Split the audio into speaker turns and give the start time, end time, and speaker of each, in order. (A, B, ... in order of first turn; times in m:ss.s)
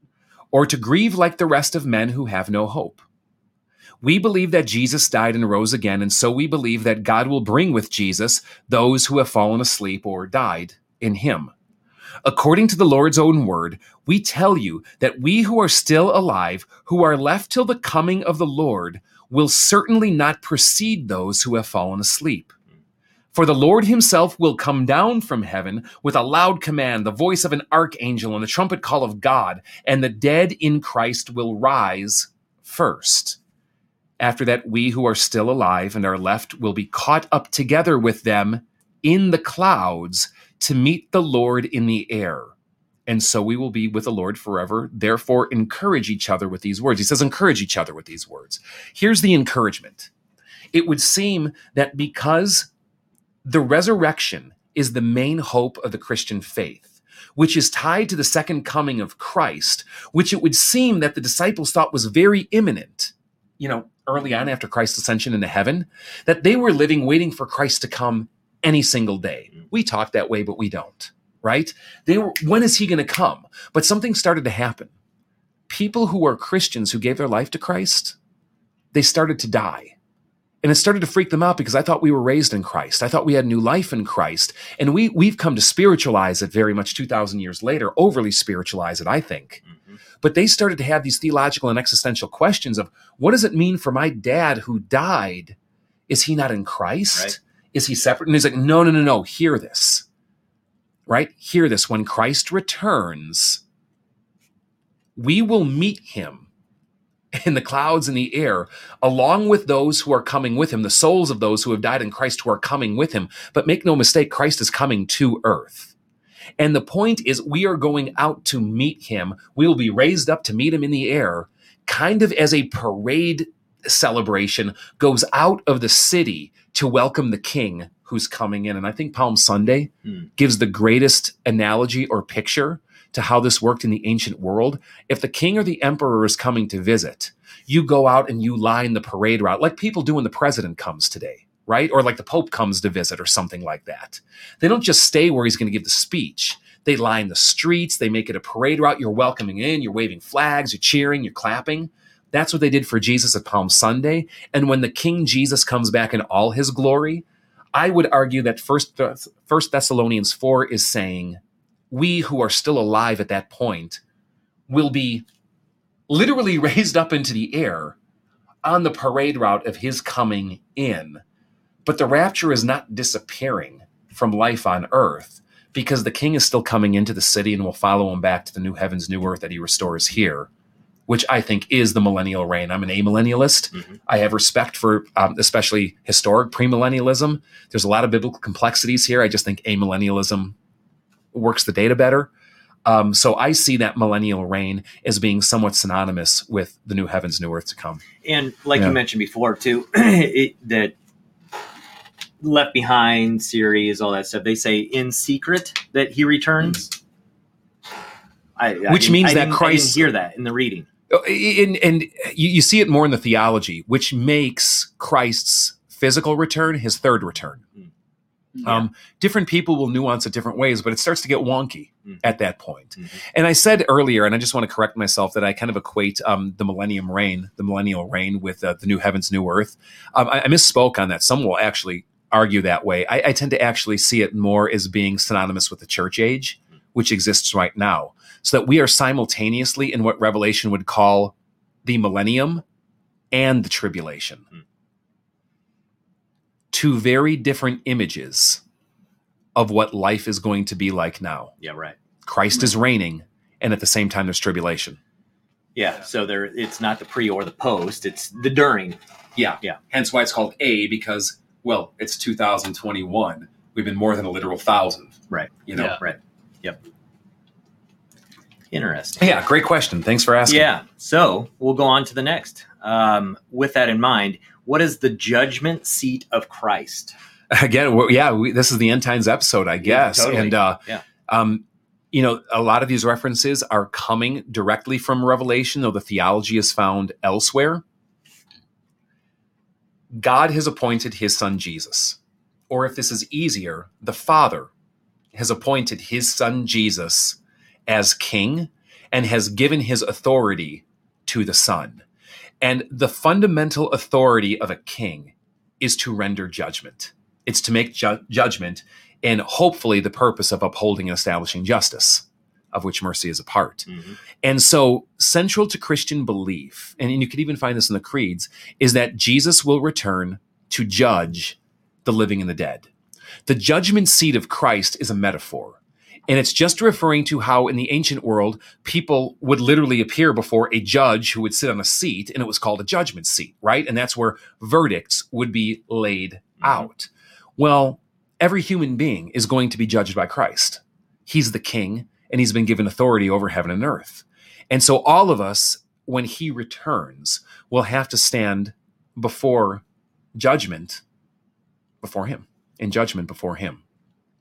0:00.5-0:03.0 A
0:04.0-0:11.5 A
0:12.2-0:22.5 A
0:23.3-0:33.4 A
0:34.2-0:42.5 A
0:43.1-0:50.1 A
0:50.7-0:52.7 A
0:53.4-1:14.9 A
1:15.7-1:18.2 A
1:18.9-1:19.9 A
1:20.6-1:29.6 A
1:29.7-1:30.0 B
1:30.2-1:35.6 A
1:36.1-1:40.0 A
1:41.1-1:43.6 A
1:45.2-1:46.4 A
1:47.3-1:55.9 A
1:56.6-2:41.4 A
2:41.9-2:44.0 A
2:44.7-2:45.2 A
2:46.1-2:48.0 A
2:48.6-2:51.2 A
2:51.8-3:00.5 A
3:01.1-3:10.6 A
3:11.3-3:12.3 A
3:12.8-3:18.0 A
3:18.2-3:21.0 B
3:22.4-3:26.9 B
3:28.6-3:30.9 B
3:28.9-3:30.1 A
3:31.1-3:37.6 A
3:38.6-4:02.6 A
4:03.3-4:04.4 A
4:06.7-4:08.6 A
4:09.5-4:11.5 A
4:11.6-4:12.0 B
4:12.2-4:15.0 A
4:15.7-4:19.0 B
4:19.4-4:26.0 A
4:25.3-4:26.8 B
4:28.7-4:29.2 B
4:29.2-4:30.7 A
4:30.5-4:37.1 B
4:37.5-4:47.8 A
4:39.8-4:41.0 B
4:50.1-4:52.2 A
4:52.7-4:54.7 A
4:55.3-5:02.0 A
5:02.6-5:13.9 A
5:13.9-5:14.2 B
5:14.4-5:22.9 A
5:23.4-5:25.8 A
5:26.3-5:49.8 A
5:36.6-5:36.8 B
5:50.4-5:51.0 A
5:52.0-5:53.8 A